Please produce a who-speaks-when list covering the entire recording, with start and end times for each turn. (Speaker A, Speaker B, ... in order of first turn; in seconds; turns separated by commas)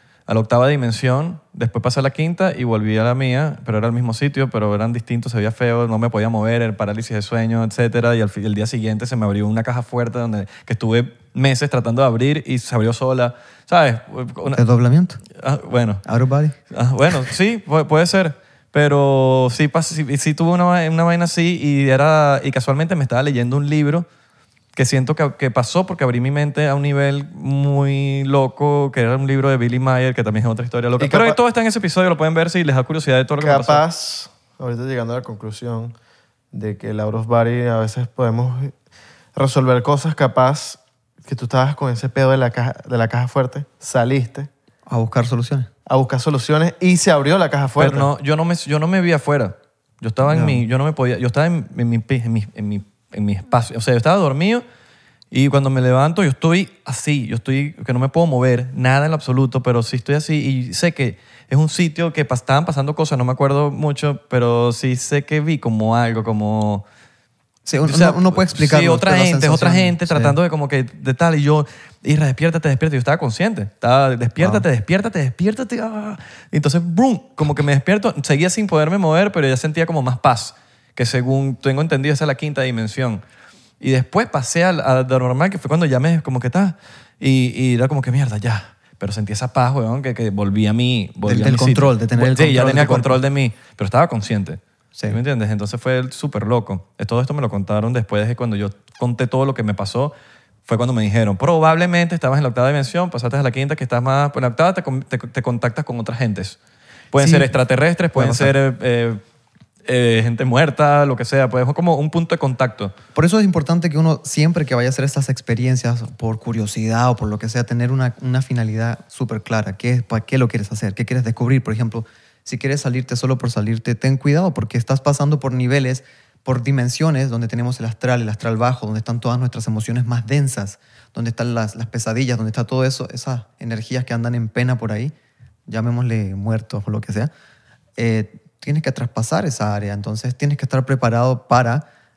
Speaker A: 0.3-14.6, Speaker B: 14.5-15.2, Speaker A: 15.3-16.0, Speaker B: 16.1-16.6, Speaker A: 16.7-24.1, Speaker A: 24.7-33.8, Speaker C: 31.0-31.4, Speaker C: 33.4-35.9, Speaker C: 36.5-38.7, Speaker C: 39.3-44.5, Speaker B: 44.9-45.7, Speaker C: 45.9-48.1, Speaker A: 47.8-54.6, Speaker B: 50.2-50.6, Speaker A: 55.3-66.8, Speaker B: 67.7-70.3, Speaker A: 67.8-83.2, Speaker B: 74.4-74.7, Speaker A: 83.8-100.1, Speaker B: 91.2-93.2, Speaker A: 100.7-106.6, Speaker A: 107.1-109.2, Speaker B: 107.2-107.5, Speaker B: 108.1-108.5, Speaker A: 109.8-112.9, Speaker B: 113.1-135.1, Speaker B: 135.7-137.3, Speaker B: 138.0-141.9